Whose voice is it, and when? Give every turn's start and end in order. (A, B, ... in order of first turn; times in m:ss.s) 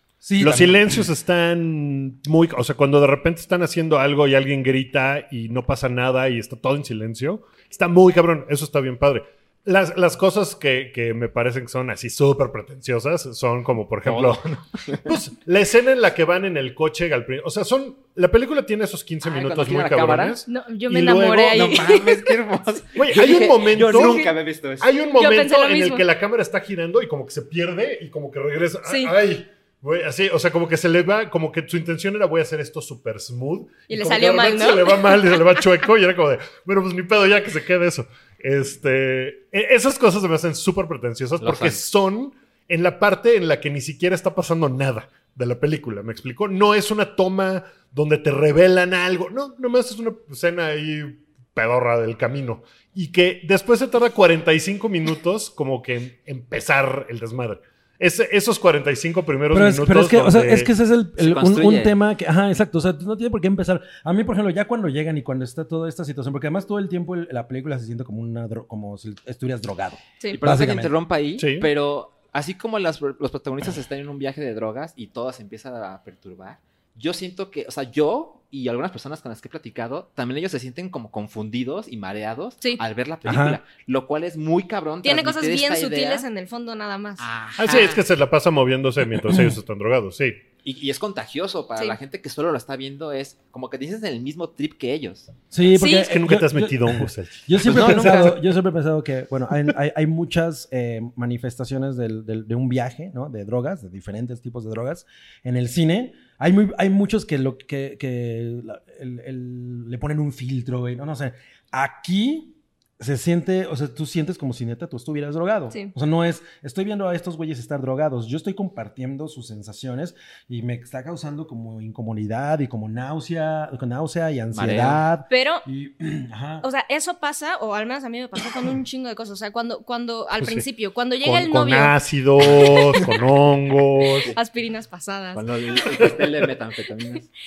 0:00.2-0:01.0 A
0:00.4-0:21.8 B
0:14.0-0:15.1 C
0:19.2-0:20.4 C
0:20.5-0:22.3 D
0:21.5-0:24.9 C
0:22.9-1:00.7 B
0:23.9-0:24.3 D
0:25.2-0:26.0 D
0:28.8-0:29.1 D
0:33.9-0:35.4 D
0:41.4-0:41.8 C
0:59.5-1:10.9 A
1:01.2-1:01.9 C
1:10.3-1:26.2 C
1:11.4-1:11.7 B
1:23.2-1:23.6 A
1:25.0-1:27.2 D
1:27.2-1:28.0 C
1:27.6-1:30.4 B
1:30.6-1:35.3 C
1:35.5-2:06.7 A
1:35.7-1:36.1 D
1:35.9-1:38.4 B
2:04.5-2:05.0 C
2:05.3-2:05.6 D
2:06.6-2:13.1 D
2:10.4-2:10.6 B
2:11.2-2:14.3 B
2:14.0-2:14.4 C
2:14.3-2:15.4 D
2:15.3-2:17.3 C